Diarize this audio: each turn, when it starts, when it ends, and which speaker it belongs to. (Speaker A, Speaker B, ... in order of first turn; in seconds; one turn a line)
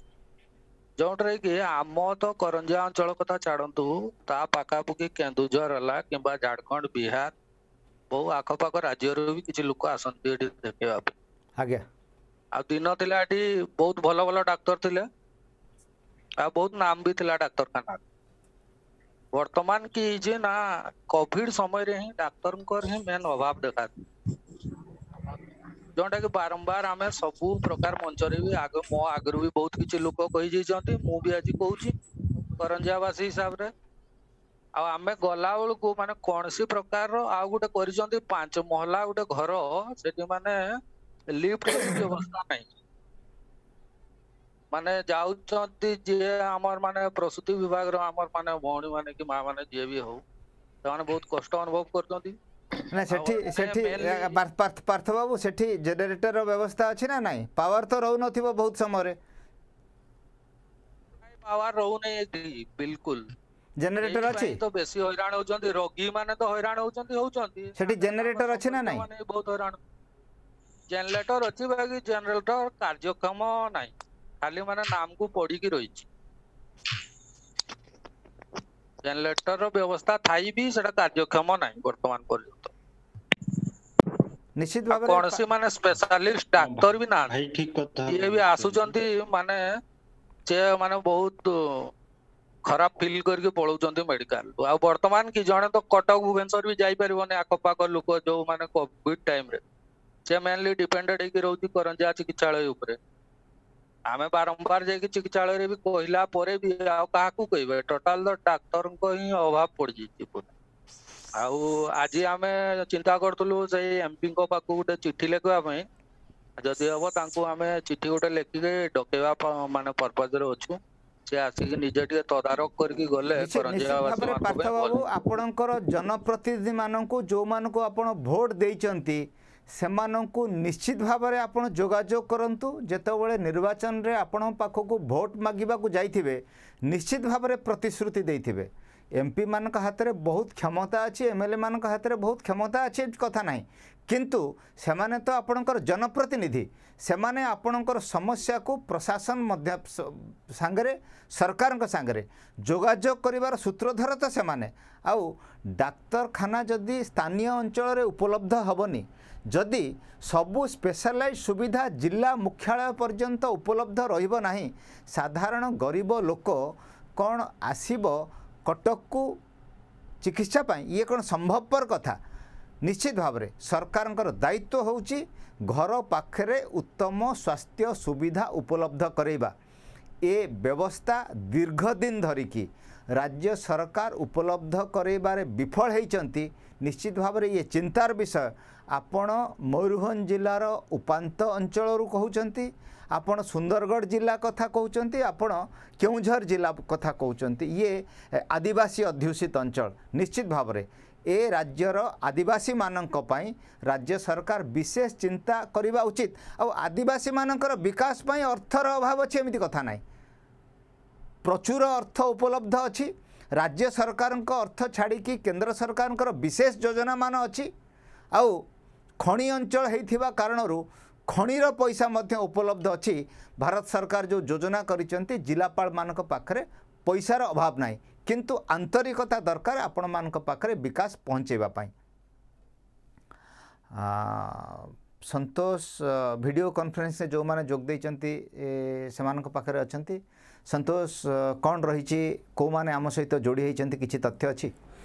Speaker A: 1.0-7.3
Speaker A: 8.1-11.1
Speaker B: 11.6-11.8
Speaker A: 12.5-15.1
Speaker A: 16.4-18.0
Speaker A: 19.3-23.9
Speaker A: 25.9-31.9
Speaker A: 32.5-33.7
Speaker A: 34.8-40.8
Speaker A: 41.3-42.7
Speaker A: 44.7-50.2
Speaker A: 50.8-52.4
Speaker B: 52.9-59.2
Speaker A: 53.1-54.4
Speaker A: 61.2-63.2
Speaker B: 63.8-64.6
Speaker A: 64.0-69.8
Speaker B: 67.8-69.0
Speaker A: 70.9-76.1
Speaker A: 79.0-82.7
Speaker B: 84.6-85.4
Speaker A: 84.9-87.4
Speaker C: 86.5-89.0
Speaker A: 88.0-89.6
Speaker A: 90.5-91.9
Speaker A: 92.7-99.6
Speaker A: 100.3-103.0
Speaker A: 104.1-110.5
Speaker A: 111.3-115.8
Speaker A: 116.6-125.1
Speaker B: 123.3-169.4
Speaker B: 170.2-172.2
Speaker B: 172.8-179.5
Speaker B: 180.2-210.0
Speaker B: 211.4-217.7
Speaker B: 218.3-218.7
Speaker B: 219.2-231.9
Speaker B: 233.9-244.7